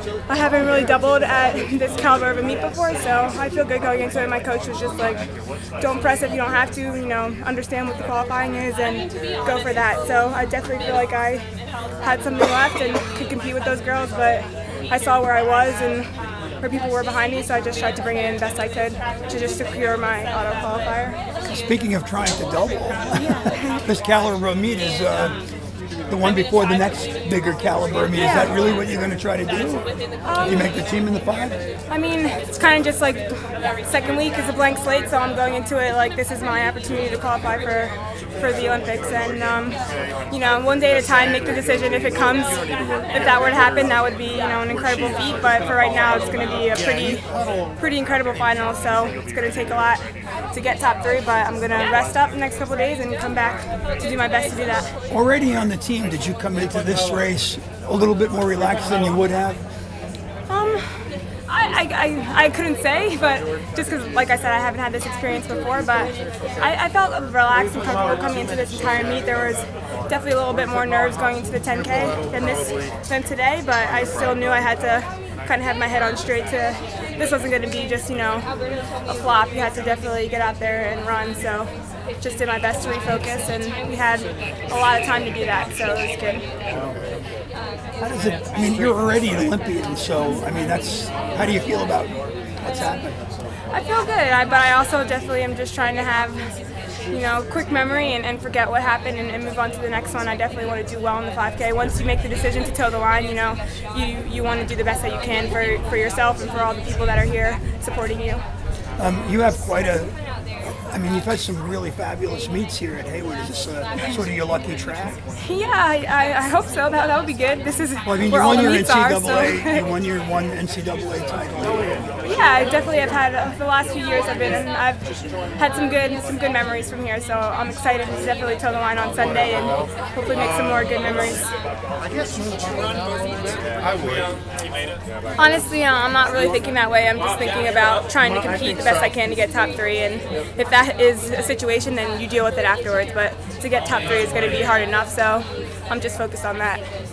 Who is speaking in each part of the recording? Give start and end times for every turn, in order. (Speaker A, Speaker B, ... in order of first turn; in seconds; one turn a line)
Speaker A: 0.3-21.2
Speaker B: 21.4-25.4
Speaker A: 23.1-23.8
Speaker B: 26.0-31.6
Speaker A: 28.1-28.5
Speaker A: 30.2-30.7
Speaker A: 31.9-54.9
Speaker B: 55.1-59.6
Speaker A: 60.5-86.5
Speaker B: 88.0-93.2
Speaker A: 93.7-96.5
Speaker A: 97.1-108.4
Speaker B: 109.0-110.2
Speaker B: 110.7-115.2
Speaker A: 115.4-119.8
Speaker B: 118.0-121.9
Speaker A: 122.2-131.4
Speaker C: 132.3-135.0
Speaker A: 135.4-146.8
Speaker C: 143.9-144.7